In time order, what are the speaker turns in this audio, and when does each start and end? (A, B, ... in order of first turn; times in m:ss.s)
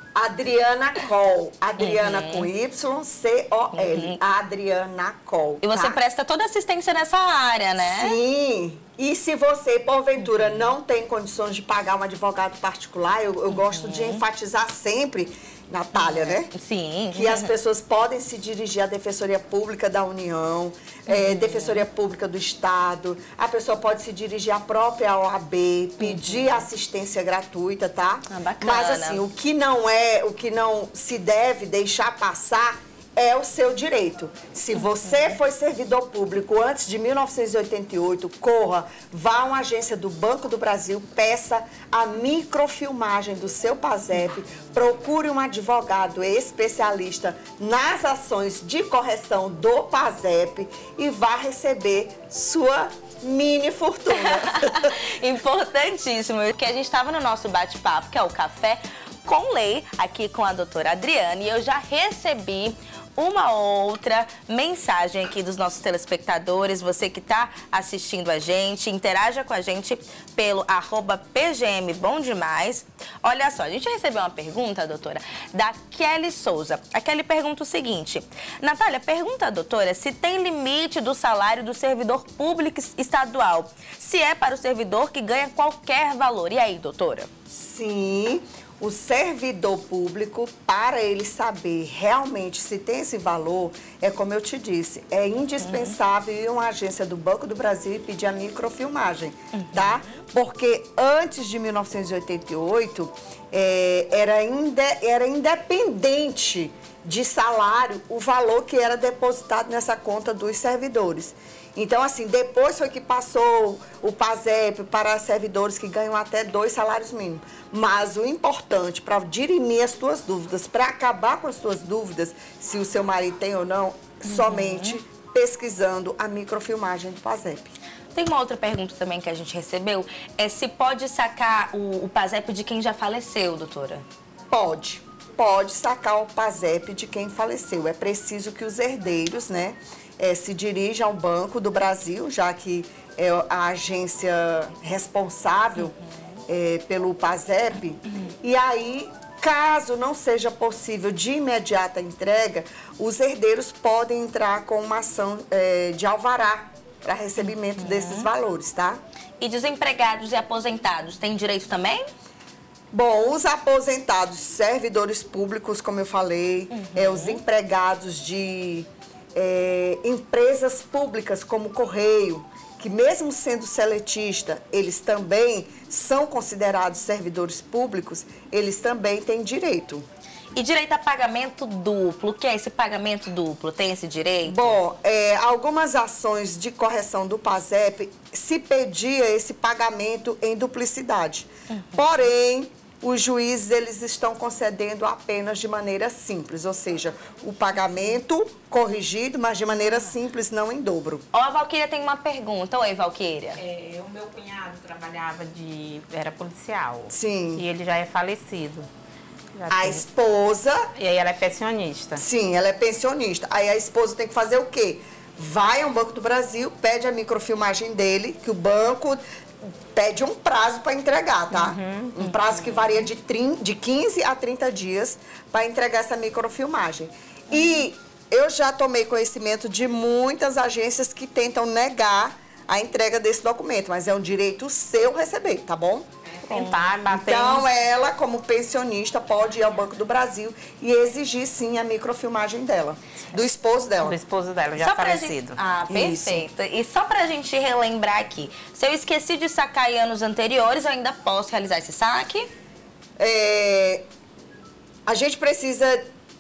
0:00.2-0:06.0 A
0:01.8-0:02.5 B
0:03.7-0:04.2 B
0:05.6-0:08.2 B
0:07.8-0:16.5 A
0:10.2-0:10.7 B
0:13.5-0:14.2 B
0:16.0-0:17.5 B
0:17.1-0:55.0 A
0:21.1-0:21.8 B
0:26.0-0:26.7 B
0:28.3-0:29.2 B
0:34.8-0:35.2 B
0:54.1-1:27.3 B
1:27.5-2:07.7 A
1:35.6-1:36.0 B
1:39.5-1:40.2 B
2:04.3-2:05.0 B
2:08.1-2:14.0 B
2:14.5-2:26.0 A
2:25.8-2:26.1 B
2:26.5-2:39.0 A
2:37.4-2:38.3 B
2:39.4-2:42.0 B
2:42.9-3:00.0 A
2:46.7-2:47.4 B
3:00.6-3:04.8 B
3:04.4-3:21.2 A
3:11.7-3:12.1 B
3:21.3-3:23.6 B
3:23.6-3:28.9 C
3:27.1-3:27.6 A
3:29.6-3:30.0 C
3:29.7-3:30.8 A
3:31.0-3:32.2 C
3:32.2-3:56.1 A
3:41.5-3:42.3 C
3:56.4-3:57.7 C
3:57.1-4:04.2 A
4:04.0-4:05.6 C
4:04.8-4:12.5 B
4:05.9-4:06.4 A
4:13.2-4:14.0 A
4:15.1-4:16.0 A